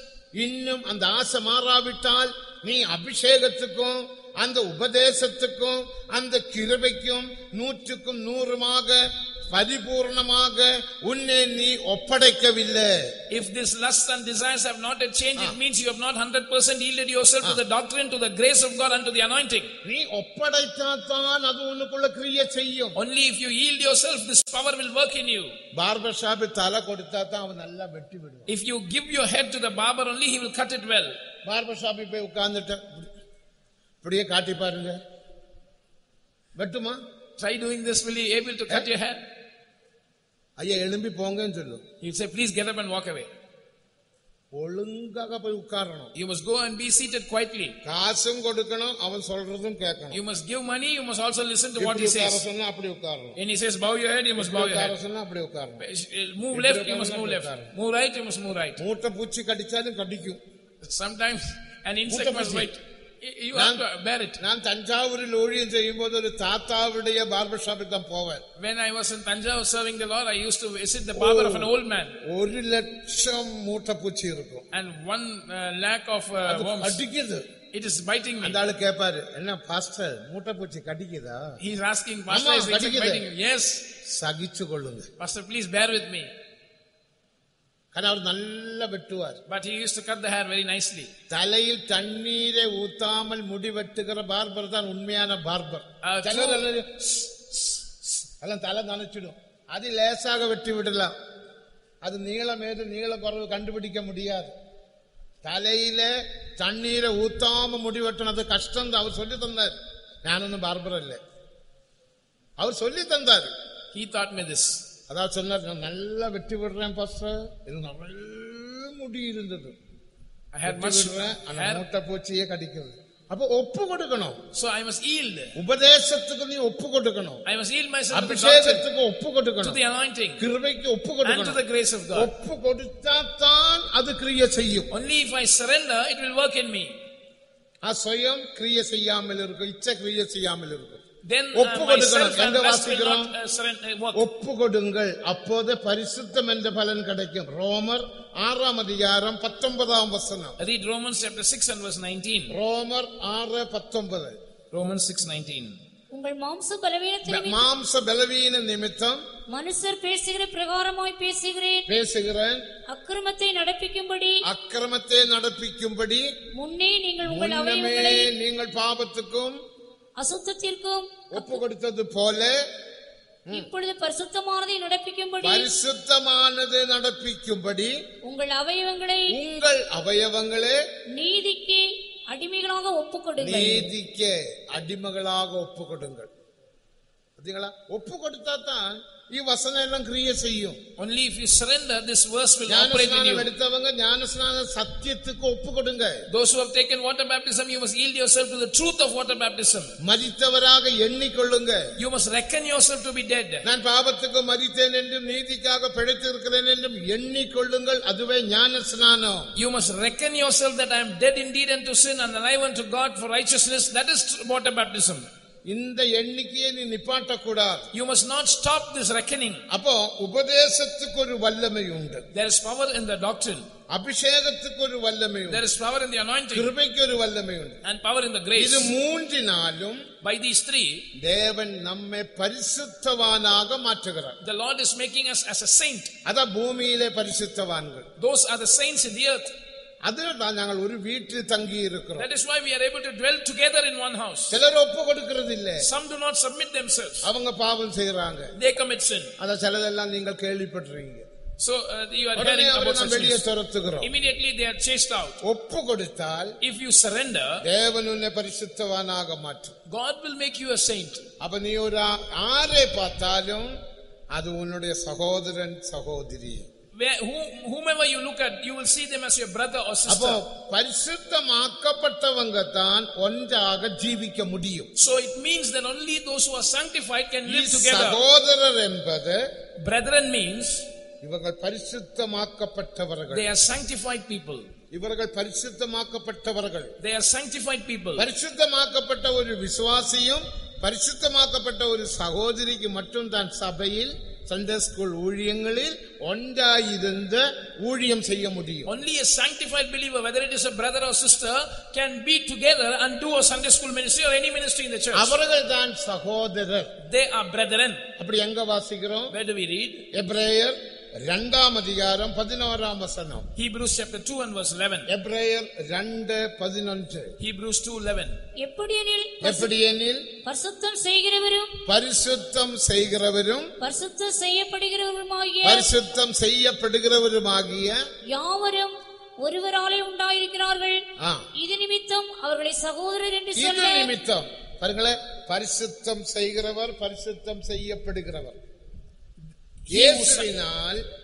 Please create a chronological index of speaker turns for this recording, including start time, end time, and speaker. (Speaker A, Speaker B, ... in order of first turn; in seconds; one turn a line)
Speaker A: 0.3-13.1
Speaker B: 13.3-19.7
Speaker A: 19.8-22.9
Speaker B: 22.9-25.6
Speaker A: 25.7-28.5
Speaker B: 28.5-31.2
Speaker A: 31.4-33.1
Speaker A: 34.0-35.0
Speaker A: 36.6-37.0
Speaker B: 37.4-39.2
Speaker A: 40.6-41.8
Speaker B: 42.0-43.3
Speaker A: 44.5-46.1
Speaker B: 46.1-47.8
Speaker A: 47.8-50.2
Speaker B: 50.1-52.4
Speaker A: 51.8-53.4
Speaker B: 53.4-54.9
Speaker A: 54.4-55.8
Speaker B: 55.8-58.8
Speaker A: 56.5-57.7
Speaker A: 58.8-60.4
Speaker B: 60.8-64.4
Speaker A: 62.1-62.7
Speaker A: 63.5-63.8
Speaker A: 64.4-68.4
Speaker B: 68.6-72.2
Speaker A: 71.1-71.7
Speaker A: 72.2-74.6
Speaker B: 74.7-77.0
Speaker A: 76.5-77.5
Speaker B: 77.7-78.6
Speaker A: 78.4-81.6
Speaker B: 81.6-83.8
Speaker A: 82.3-83.2
Speaker A: 84.0-85.1
Speaker B: 85.2-86.3
Speaker A: 87.9-89.4
Speaker B: 89.5-91.1
Speaker A: 91.3-97.7
Speaker B: 96.0-96.7
Speaker A: 98.4-101.1
Speaker A: 102.0-104.5
Speaker A: 105.4-111.2
Speaker A: 112.6-113.5
Speaker B: 113.9-114.8
Speaker A: 115.1-119.7
Speaker B: 120.5-121.8
Speaker A: 120.6-124.4
Speaker B: 124.5-125.5
Speaker A: 125.5-127.4
Speaker B: 127.5-128.8
Speaker A: 128.1-129.8
Speaker B: 129.6-130.4
Speaker A: 130.4-131.6
Speaker B: 131.2-132.3
Speaker A: 132.1-134.9
Speaker B: 134.9-137.0
Speaker A: 137.8-141.0
Speaker B: 141.2-144.2
Speaker A: 141.5-143.3
Speaker A: 144.1-150.6
Speaker B: 150.6-152.6
Speaker A: 152.5-154.4
Speaker B: 154.7-155.8
Speaker C: 156.1-157.7
Speaker A: 157.3-159.2
Speaker C: 159.5-161.9
Speaker A: 161.9-162.6
Speaker C: 162.9-164.4
Speaker A: 164.4-166.3
Speaker C: 166.6-168.3
Speaker A: 167.2-169.6
Speaker C: 170.2-171.6
Speaker A: 171.3-172.5
Speaker C: 173.5-175.7
Speaker A: 175.4-178.0
Speaker C: 178.2-179.3
Speaker A: 179.3-180.8
Speaker C: 181.1-183.9
Speaker A: 183.4-186.3
Speaker A: 187.4-190.8
Speaker B: 191.0-193.5
Speaker A: 192.7-196.2
Speaker B: 196.3-200.0
Speaker A: 200.0-201.8
Speaker B: 202.0-203.6
Speaker A: 203.6-209.5
Speaker B: 209.6-215.3
Speaker A: 215.7-217.9
Speaker B: 217.9-219.6
Speaker A: 219.7-222.2
Speaker B: 222.3-223.7
Speaker A: 223.9-225.6
Speaker B: 225.5-226.7
Speaker A: 226.5-227.8
Speaker B: 227.8-228.9
Speaker A: 228.6-230.0
Speaker B: 230.2-231.1
Speaker A: 231.2-234.4
Speaker B: 234.4-236.1
Speaker A: 236.2-238.1
Speaker B: 238.2-239.5
Speaker A: 240.0-242.3
Speaker B: 242.2-244.6
Speaker A: 244.5-245.9
Speaker B: 245.8-247.2
Speaker A: 247.2-248.5
Speaker B: 248.6-249.3
Speaker A: 249.4-251.3
Speaker B: 251.6-253.4
Speaker A: 252.3-254.1
Speaker B: 254.0-255.4
Speaker A: 255.4-256.6
Speaker B: 256.6-257.6
Speaker A: 257.6-259.7
Speaker B: 259.9-261.3
Speaker A: 261.4-263.7
Speaker A: 264.3-266.7
Speaker B: 266.9-270.4
Speaker A: 270.1-274.9
Speaker B: 274.9-278.2
Speaker A: 277.4-279.4
Speaker B: 279.8-280.9
Speaker A: 281.2-283.5
Speaker B: 283.3-284.7
Speaker A: 284.9-286.9
Speaker B: 287.0-288.3
Speaker A: 288.2-298.9
Speaker B: 298.9-305.4
Speaker A: 305.1-306.9
Speaker B: 307.0-308.1
Speaker A: 308.2-309.3
Speaker B: 309.3-310.1
Speaker A: 310.1-313.5
Speaker B: 313.6-315.1
Speaker A: 315.1-317.3
Speaker B: 317.4-318.4
Speaker C: 318.6-319.7
Speaker A: 319.4-320.3
Speaker C: 320.4-321.7
Speaker A: 321.9-323.7
Speaker C: 323.8-325.9
Speaker A: 325.6-328.0
Speaker C: 328.3-331.0
Speaker A: 331.2-331.5
Speaker C: 331.6-334.1
Speaker A: 333.6-338.6
Speaker B: 339.9-340.5
Speaker A: 339.9-341.0